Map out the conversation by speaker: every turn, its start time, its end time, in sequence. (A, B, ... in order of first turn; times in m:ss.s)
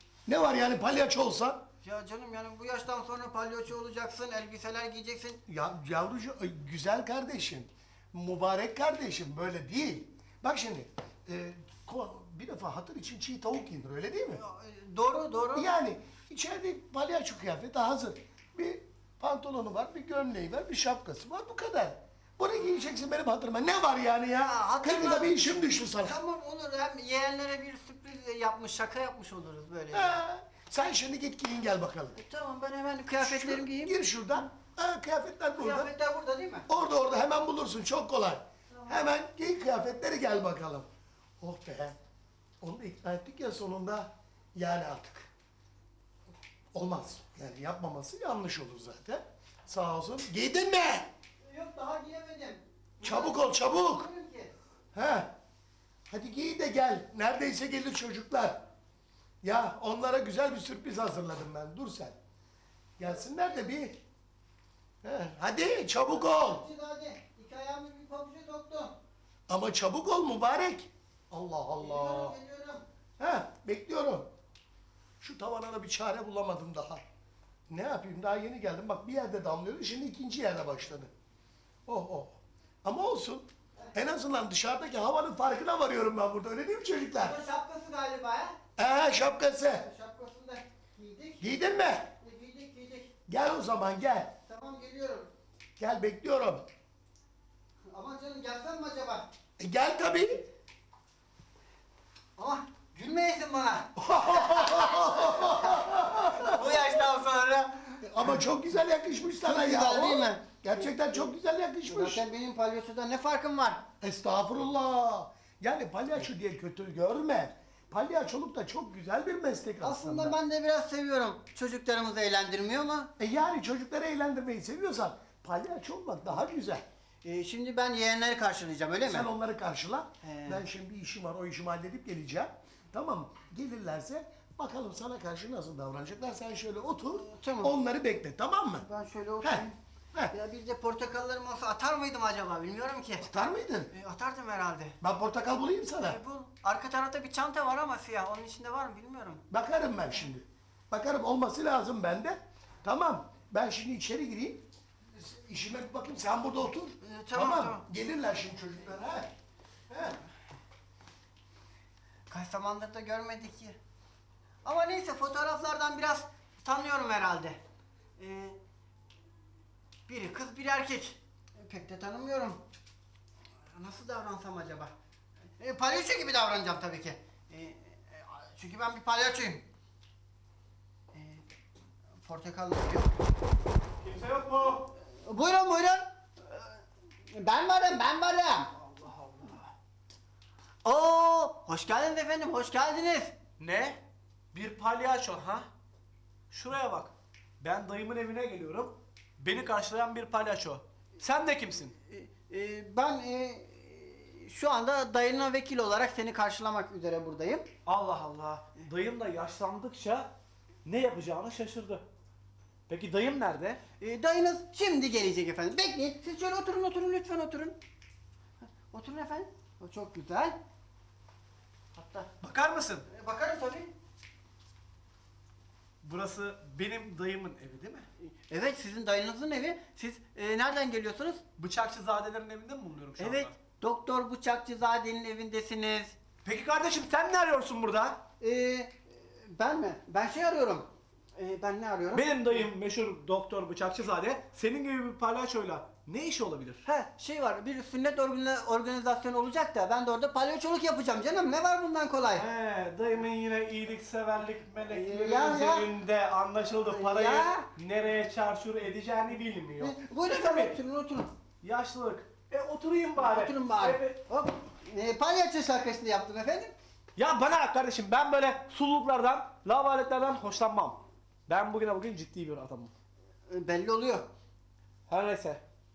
0:00.2-0:01.6 A
0:01.8-0:05.4 B
0:05.5-0:14.4 A
0:14.3-0:15.7 B
0:15.6-0:26.2 A
0:24.4-0:30.2 B
0:29.9-0:32.2 A
0:32.1-0:34.0 B
0:33.2-0:35.9 A
0:35.6-0:36.7 B
0:36.7-0:40.9 A
0:41.4-0:42.0 A
0:42.6-0:45.3 A
0:46.7-0:51.1 A
0:51.4-0:54.5 B
0:53.0-0:54.1 A
0:54.9-0:55.4 A
0:56.1-0:58.6 A
0:59.4-1:02.2 A
1:03.0-1:04.0 A
1:03.0-1:03.7 B
1:05.0-1:06.6 A
1:06.1-1:09.0 B
1:09.5-1:12.4 A
1:11.8-1:12.9 B
1:13.2-1:14.3 A
1:15.2-1:17.0 A
1:17.7-1:21.1 A
1:21.9-1:27.4 A
1:27.2-1:28.6 B
1:28.8-1:29.9 A
1:29.8-1:33.1 B
1:31.4-1:32.1 A
1:33.3-1:34.4 A
1:34.5-1:35.3 B
1:35.8-1:36.7 A
1:37.9-1:39.3 B
1:39.6-1:40.4 A
1:42.4-1:48.4 B
1:44.0-1:47.1 A
1:48.0-1:52.2 A
1:49.4-1:51.3 B
1:51.9-1:53.9 B
1:54.0-2:00.4 A
1:59.8-2:03.1 B
2:03.2-2:06.9 A
2:07.2-2:09.3 B
2:09.0-2:18.9 A
2:10.2-2:10.6 B
2:17.2-2:17.7 B
2:18.8-2:19.8 B
2:19.4-2:20.3 A
2:20.3-2:25.0 B
2:23.2-2:23.9 A
2:25.0-2:26.2 A
2:26.0-2:29.4 B
2:29.5-2:39.3 A
2:37.0-2:37.8 B
2:39.9-2:40.2 A
2:42.3-2:43.8 B
2:44.6-2:47.6 B
2:48.2-2:48.6 B
2:50.1-2:52.6 B
2:53.7-2:54.9 B
2:55.6-2:59.7 B
3:01.1-3:01.4 B
3:02.2-3:03.1 B
3:04.0-3:04.9 C
3:05.1-3:06.8 B
3:07.3-3:08.7 B
3:08.8-3:09.7 C
3:10.8-3:13.4 B
3:13.6-3:14.0 C
3:14.5-3:15.7 C
3:16.5-3:22.0 C
3:22.0-3:27.7 B
3:27.8-3:30.3 C
3:30.8-3:32.0 C
3:32.9-3:33.8 C
3:34.0-3:37.8 B
3:38.6-3:40.6 B
3:42.0-3:42.3 B
3:42.3-3:43.1 C
3:43.1-3:43.9 B
3:46.0-3:48.1 C
3:48.3-3:51.4 B
3:51.6-3:53.6 C
3:53.2-3:56.2 B
3:56.4-3:58.2 C
3:58.4-4:02.6 B
4:02.1-4:07.1 C
4:07.1-4:12.5 B
4:12.3-4:20.8 C
4:14.9-4:15.9 B
4:16.8-4:17.7 B
4:19.8-4:21.3 B
4:21.6-4:24.2 C
4:23.2-4:26.8 B
4:27.2-4:32.9 C
4:33.5-4:34.3 B
4:35.1-4:35.6 C